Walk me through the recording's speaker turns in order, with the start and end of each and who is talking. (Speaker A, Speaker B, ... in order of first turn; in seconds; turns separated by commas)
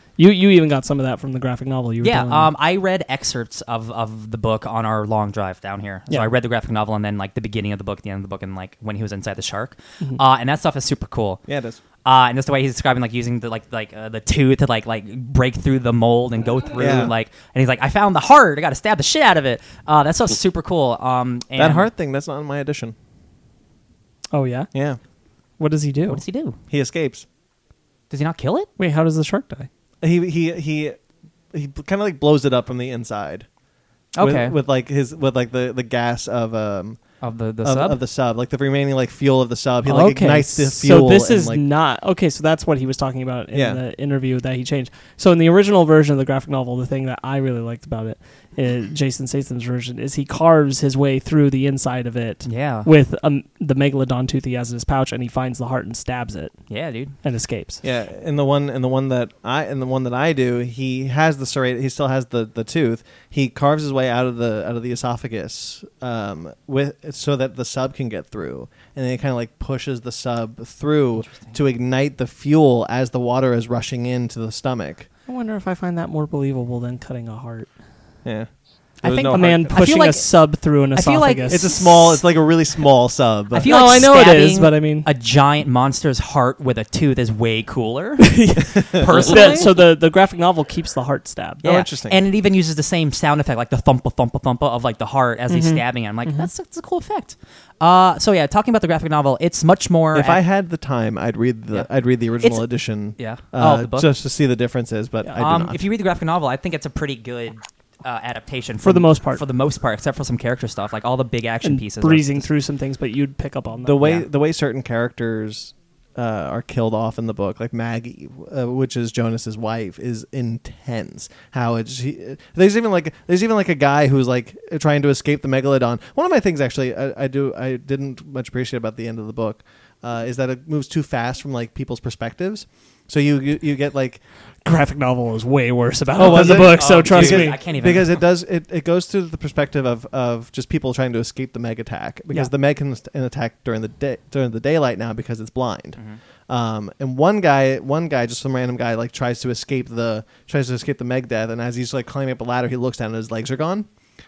Speaker A: 0.2-2.5, Speaker B: 2.0-11.4, Speaker C: 11.5-11.8, Speaker B: 12.0-21.9, Speaker C: 16.8-17.1, Speaker C: 21.6-22.9, Speaker A: 24.3-24.7, Speaker C: 24.7-25.0, Speaker A: 25.6-26.2, Speaker B: 26.1-26.6, Speaker C: 26.7-27.3, Speaker B: 28.1-28.7, Speaker A: 28.8-29.7, Speaker C: 30.0-31.0, Speaker C: 31.5-33.5, Speaker B: 34.1-34.6, Speaker C: 34.2-41.6, Speaker B: 37.2-38.0, Speaker A: 39.9-56.7, Speaker C: 43.5-43.8, Speaker B: 52.5-52.9, Speaker B: 56.7-57.1, Speaker A: 57.2-57.8, Speaker C: 57.8-75.1, Speaker B: 71.2-71.6, Speaker A: 75.3-77.7, Speaker C: 79.0-79.8, Speaker B: 79.0-80.3, Speaker A: 79.3-81.7, Speaker B: 80.9-82.2, Speaker C: 81.5-83.7, Speaker B: 83.5-89.8, Speaker A: 83.7-85.1, Speaker A: 88.2-91.6, Speaker B: 91.6-100.4, Speaker C: 91.6-92.2, Speaker A: 95.5-96.5, Speaker C: 100.1-105.8, Speaker B: 103.2-104.1, Speaker B: 105.4-112.5, Speaker A: 108.8-109.4, Speaker A: 111.6-114.0, Speaker C: 113.8-134.2, Speaker B: 114.0-114.3, Speaker A: 134.7-137.6, Speaker C: 136.2-153.9, Speaker B: 136.2-138.2